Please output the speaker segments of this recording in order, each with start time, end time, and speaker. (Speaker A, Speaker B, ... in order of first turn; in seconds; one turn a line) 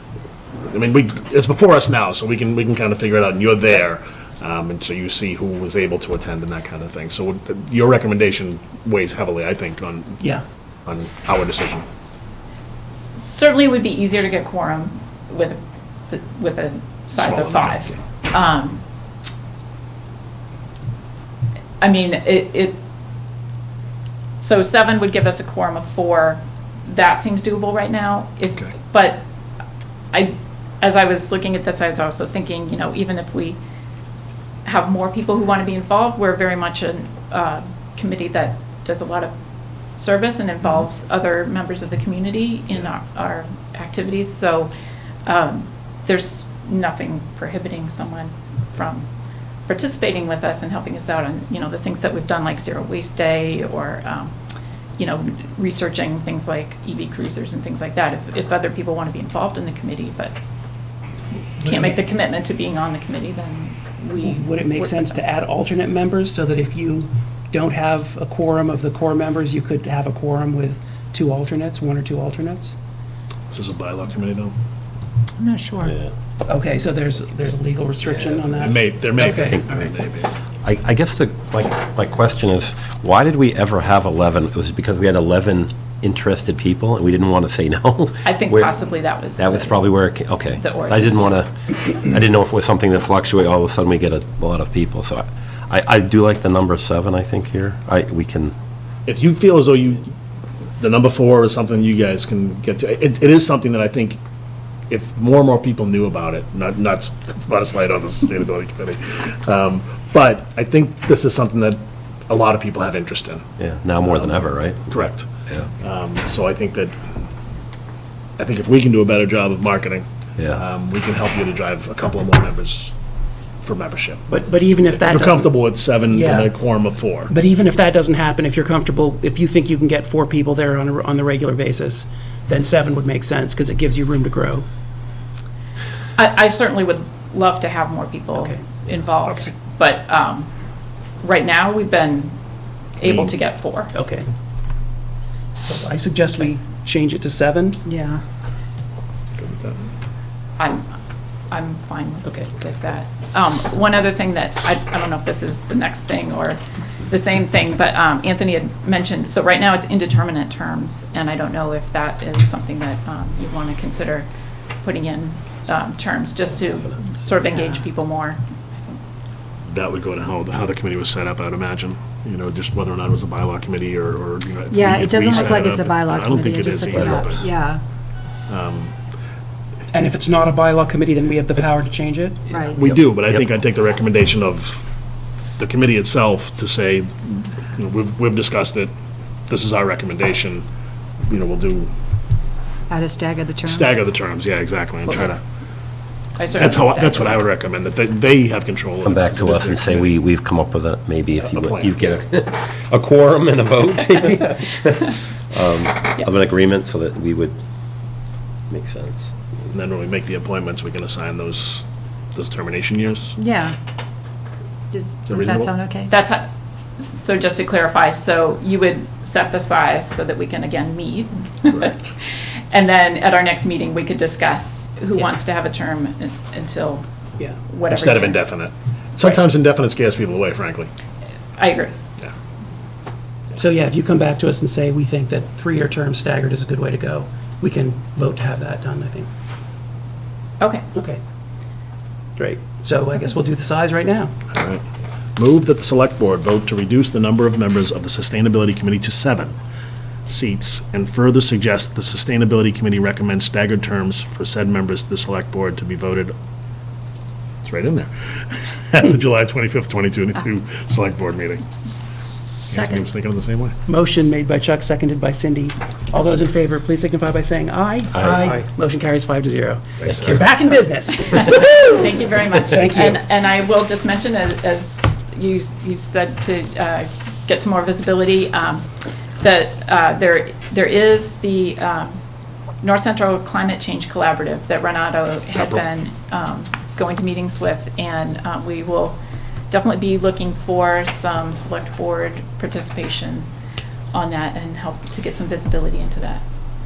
Speaker A: 0.7-10.3
Speaker A: 10.8-11.8
Speaker B: 13.1-18.8
Speaker A: 17.1-18.0
Speaker B: 21.8-22.8
Speaker B: 24.4-29.2
Speaker B: 30.1-33.6
Speaker B: 34.6-39.3
Speaker B: 40.0-44.7
Speaker B: 45.2-49.1
Speaker B: 49.7-54.3
Speaker B: 55.0-60.4
Speaker B: 61.6-65.2
Speaker C: 61.6-62.0
Speaker C: 64.2-72.7
Speaker A: 73.5-74.5
Speaker D: 75.4-76.0
Speaker C: 76.4-79.6
Speaker A: 78.5-80.3
Speaker E: 79.4-79.8
Speaker E: 80.6-88.7
Speaker B: 88.2-89.9
Speaker E: 89.3-98.5
Speaker B: 90.6-91.4
Speaker A: 99.0-100.1
Speaker A: 100.8-104.2
Speaker A: 104.9-113.5
Speaker E: 113.6-115.7
Speaker A: 114.0-115.3
Speaker A: 115.8-117.0
Speaker A: 118.4-122.9
Speaker A: 123.6-124.3
Speaker C: 124.3-126.5
Speaker A: 124.9-127.3
Speaker C: 127.3-134.7
Speaker B: 136.2-140.5
Speaker C: 138.4-138.6
Speaker A: 139.2-139.5
Speaker B: 141.2-142.3
Speaker B: 143.0-143.9
Speaker C: 143.9-144.3
Speaker C: 145.7-147.8
Speaker D: 147.8-148.2
Speaker A: 149.3-149.9
Speaker B: 150.6-150.9
Speaker B: 151.5-164.3
Speaker C: 152.2-152.5
Speaker B: 164.8-169.0
Speaker A: 169.7-177.5
Speaker D: 174.7-177.8
Speaker E: 176.9-177.3
Speaker A: 178.5-178.9
Speaker C: 179.9-182.5
Speaker D: 182.5-182.8
Speaker A: 182.5-184.9
Speaker E: 182.8-183.4
Speaker A: 185.6-188.9
Speaker A: 189.5-190.6
Speaker A: 191.3-191.9
Speaker D: 192.9-194.0
Speaker A: 193.7-195.4
Speaker B: 195.1-195.3
Speaker B: 196.3-197.4
Speaker A: 196.6-200.1
Speaker E: 199.0-207.6
Speaker A: 201.4-202.2
Speaker E: 208.7-209.3
Speaker A: 209.7-213.4
Speaker D: 213.4-213.7
Speaker D: 214.9-216.1
Speaker A: 215.2-215.7
Speaker B: 216.1-222.1
Speaker B: 222.7-227.1
Speaker B: 227.7-228.4
Speaker A: 227.9-230.9
Speaker B: 231.6-232.0
Speaker C: 233.5-239.3
Speaker B: 240.6-240.8
Speaker C: 240.9-241.2
Speaker C: 242.4-244.3
Speaker A: 244.5-244.8
Speaker A: 245.3-249.5
Speaker A: 250.2-256.3
Speaker A: 257.6-261.6
Speaker A: 262.7-263.8
Speaker D: 262.7-263.1
Speaker C: 263.9-272.0
Speaker E: 268.1-268.6
Speaker A: 270.0-270.5
Speaker E: 270.0-270.4
Speaker B: 271.2-282.2
Speaker C: 272.6-273.2
Speaker B: 282.8-289.2
Speaker A: 285.5-285.9
Speaker B: 289.7-293.5
Speaker B: 294.1-296.4